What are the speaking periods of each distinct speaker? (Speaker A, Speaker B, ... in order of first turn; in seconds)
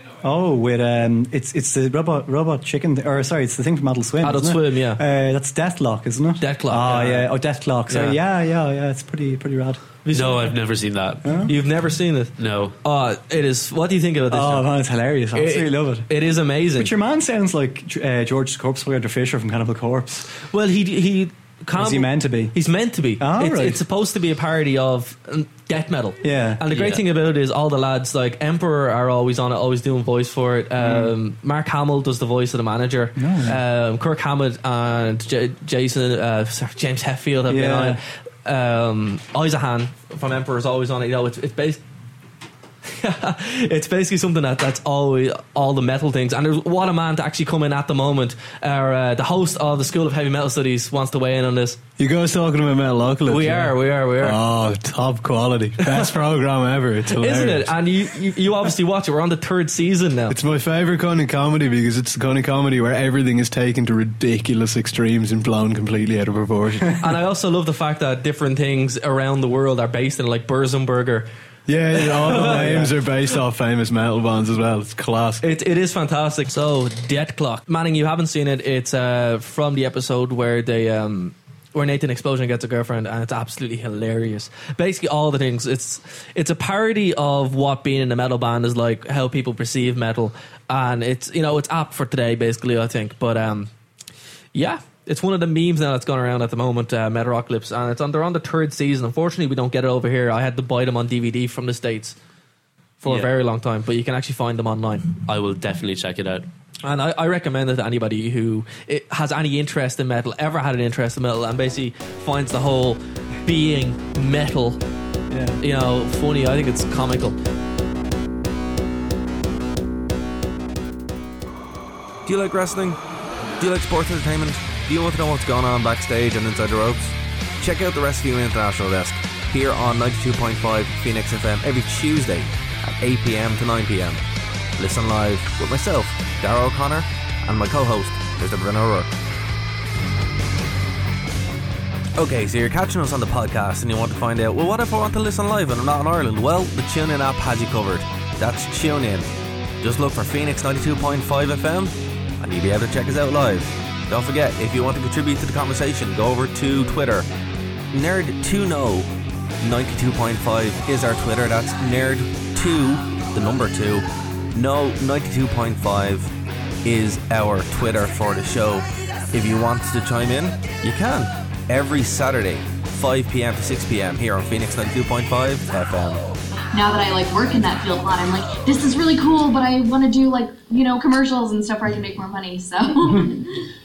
Speaker A: 0.2-9.8, 11.2-11.5, 14.3-16.1, 16.8-20.2, 21.7-22.5, 23.2-23.8, 26.2-26.6, 30.8-31.1, 33.2-33.6, 37.5-38.0, 72.4-72.9, 115.3-115.6
Speaker B: 4.2-5.0, 6.4-7.3, 7.9-8.2, 10.0-10.5, 11.5-14.7, 15.3-16.9, 20.5-41.8, 42.9-51.8, 53.3-54.4, 57.1-60.4, 67.0-71.3, 71.9-72.9, 75.4-93.7, 94.5-102.2, 103.0-105.1, 106.8-114.8, 115.6-117.3
Speaker C: 10.1-11.2, 12.4-12.7, 26.7-27.0, 103.0-103.3, 105.2-106.5
Speaker D: 52.0-57.8, 60.3-67.0, 71.7-75.4
Speaker E: 122.2-123.0, 123.6-134.2, 134.8-139.1, 142.2-149.3, 149.8-157.3, 157.9-159.1, 159.6-166.3, 166.8-176.3
Speaker F: 176.7-183.4